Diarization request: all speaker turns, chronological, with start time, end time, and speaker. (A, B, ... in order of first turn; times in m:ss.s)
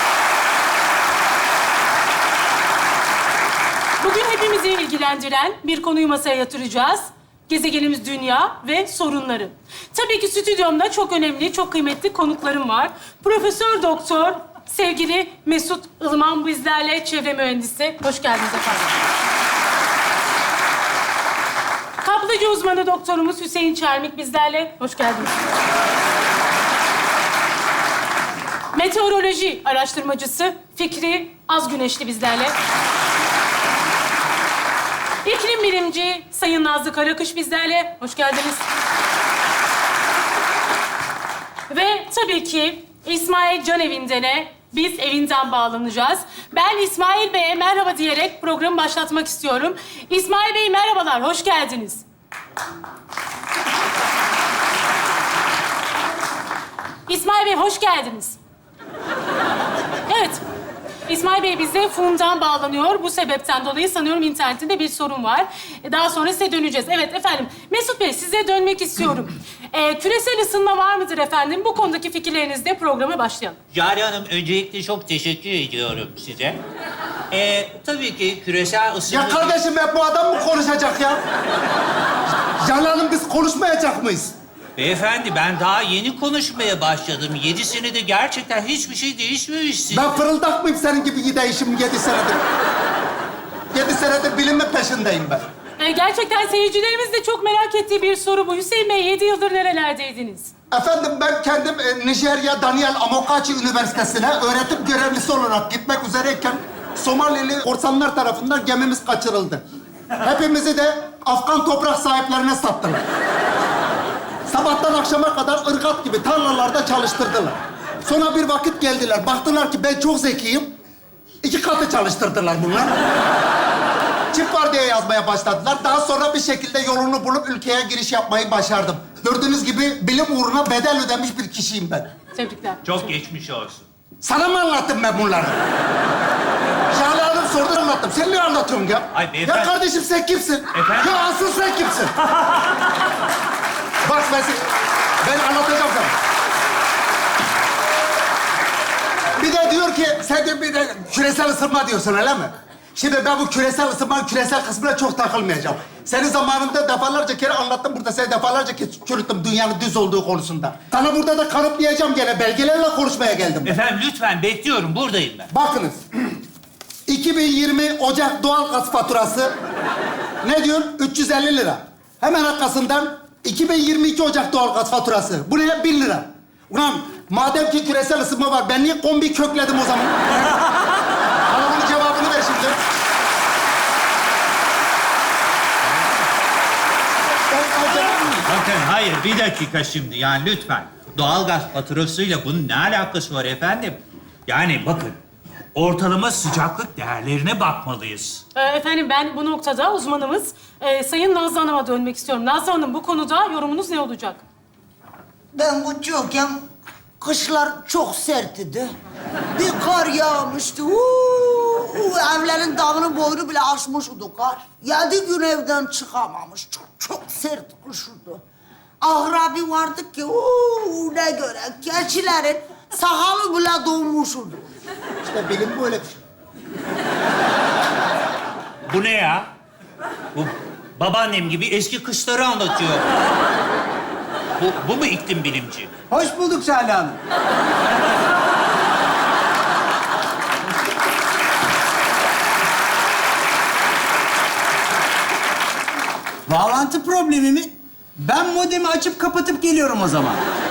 0:04.0-0:19.0 A
0:22.0-0:25.3 A
0:28.7-0:32.6 A
0:35.2-0:38.6 A
0:41.7-0:52.0 A
0:57.1-0:58.4 A
1:00.1-1:00.4 A
1:01.1-1:13.6 A
1:13.7-1:16.6 B
1:17.3-1:19.6 B
1:19.1-1:21.2 C
1:22.6-1:24.3 C
1:24.8-1:30.2 B
1:29.9-1:32.4 C
1:33.7-1:35.4 C
1:35.8-1:40.5 A
1:40.7-1:49.6 C
1:50.2-1:53.0 C
1:54.5-2:00.7 C
2:01.4-2:03.0 C
2:04.3-2:12.1 C
2:12.3-2:13.0 A
2:12.8-2:13.9 B
2:14.2-2:15.6 C
2:16.9-2:22.2 C
2:19.1-2:19.7 B
2:20.7-2:21.3 B
2:24.0-2:24.7 C
2:25.2-2:26.1 C
2:29.4-2:43.8 C
2:43.6-2:45.5 B
2:45.5-2:46.0 C
2:47.1-2:49.5 C
2:50.4-3:00.3 C
3:01.5-3:02.8 C
3:07.5-3:08.4 D
3:07.9-3:15.2 B
3:15.8-3:18.4 B
3:18.6-3:24.4 A
3:25.5-3:26.7 D
3:27.2-3:28.9 D
3:29.5-3:38.4 D
3:39.0-3:44.6 D
3:45.2-3:46.2 C
3:48.9-3:49.5 B
3:50.3-3:53.1 B
3:54.6-3:55.9 B
3:56.1-3:57.2 E
4:06.5-4:10.4 E